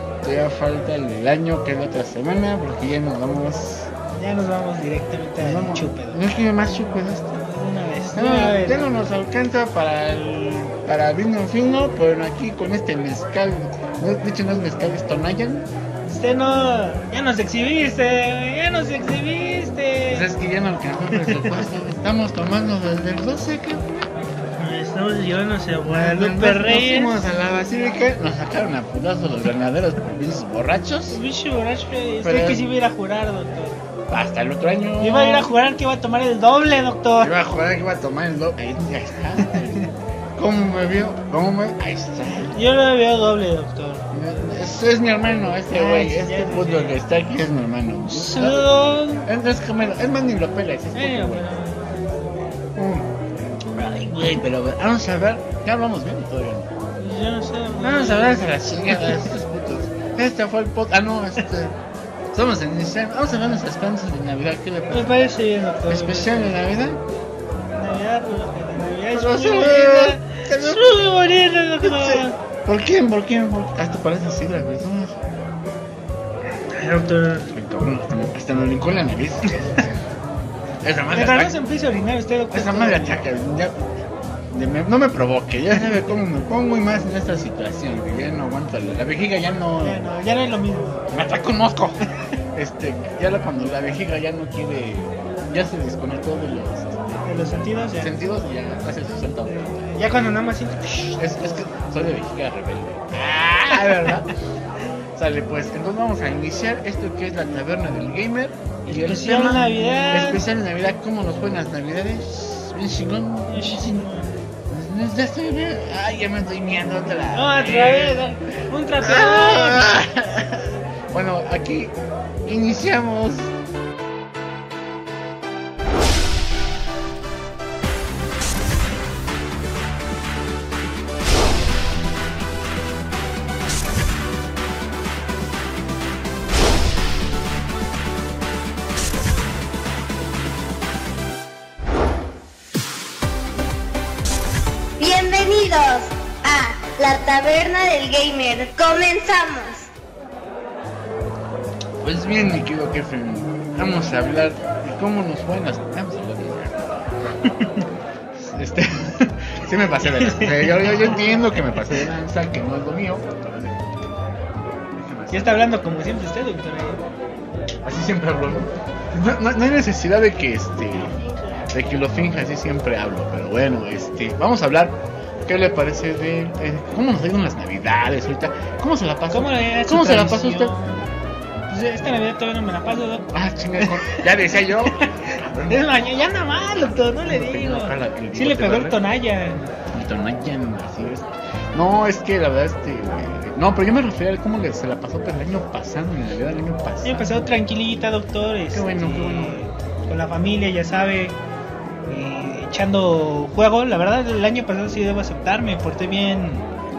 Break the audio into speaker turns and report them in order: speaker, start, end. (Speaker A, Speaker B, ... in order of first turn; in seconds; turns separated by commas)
Speaker A: 0.2-3.9, Speaker B: 4.1-6.2, Speaker A: 5.4-7.4, Speaker B: 7.4-8.9, Speaker A: 8.1-15.7, Speaker B: 16.0-20.3, Speaker A: 20.1-24.1, Speaker B: 21.1-21.6, Speaker B: 24.5-27.2, Speaker A: 25.9-31.2, Speaker B: 31.1-33.8, Speaker A: 32.2-32.6, Speaker A: 34.1-35.5, Speaker B: 35.0-37.3, Speaker A: 37.2-42.5, Speaker B: 42.5-44.1, Speaker A: 44.1-51.4, Speaker B: 45.7-47.0, Speaker B: 48.0-49.3, Speaker B: 50.9-52.7, Speaker A: 52.8-53.1, Speaker A: 53.7-56.7, Speaker B: 57.0-59.2, Speaker A: 57.8-61.8, Speaker A: 62.3-65.3, Speaker B: 64.9-66.6, Speaker A: 65.9-67.0, Speaker B: 67.7-72.4, Speaker A: 69.1-71.0, Speaker A: 71.8-75.2, Speaker B: 76.7-77.5, Speaker A: 77.5-79.9, Speaker A: 80.8-81.5, Speaker B: 81.1-83.3, Speaker A: 82.5-83.7, Speaker A: 84.5-90.0, Speaker B: 89.8-91.1, Speaker A: 91.1-92.0, Speaker A: 92.5-97.1, Speaker B: 97.2-98.1, Speaker A: 98.0-100.0, Speaker B: 99.9-101.3, Speaker A: 101.1-104.3, Speaker B: 103.8-104.2, Speaker A: 105.2-114.0, Speaker B: 108.9-110.5, Speaker B: 113.5-114.3, Speaker A: 114.7-118.2, Speaker B: 117.3-119.9, Speaker A: 119.0-121.9, Speaker A: 122.5-123.5, Speaker C: 145.0-149.9, Speaker A: 152.0-157.0, Speaker B: 157.5-157.8, Speaker A: 158.4-163.8, Speaker B: 160.0-162.0, Speaker A: 165.0-165.8, Speaker B: 165.3-167.0, Speaker A: 167.8-180.7, Speaker B: 179.3-181.1, Speaker B: 181.7-184.2, Speaker A: 183.3-185.8, Speaker B: 184.8-189.7, Speaker A: 187.3-189.0, Speaker A: 189.9-197.2, Speaker B: 197.0-201.4, Speaker A: 198.7-199.7, Speaker B: 202.1-206.7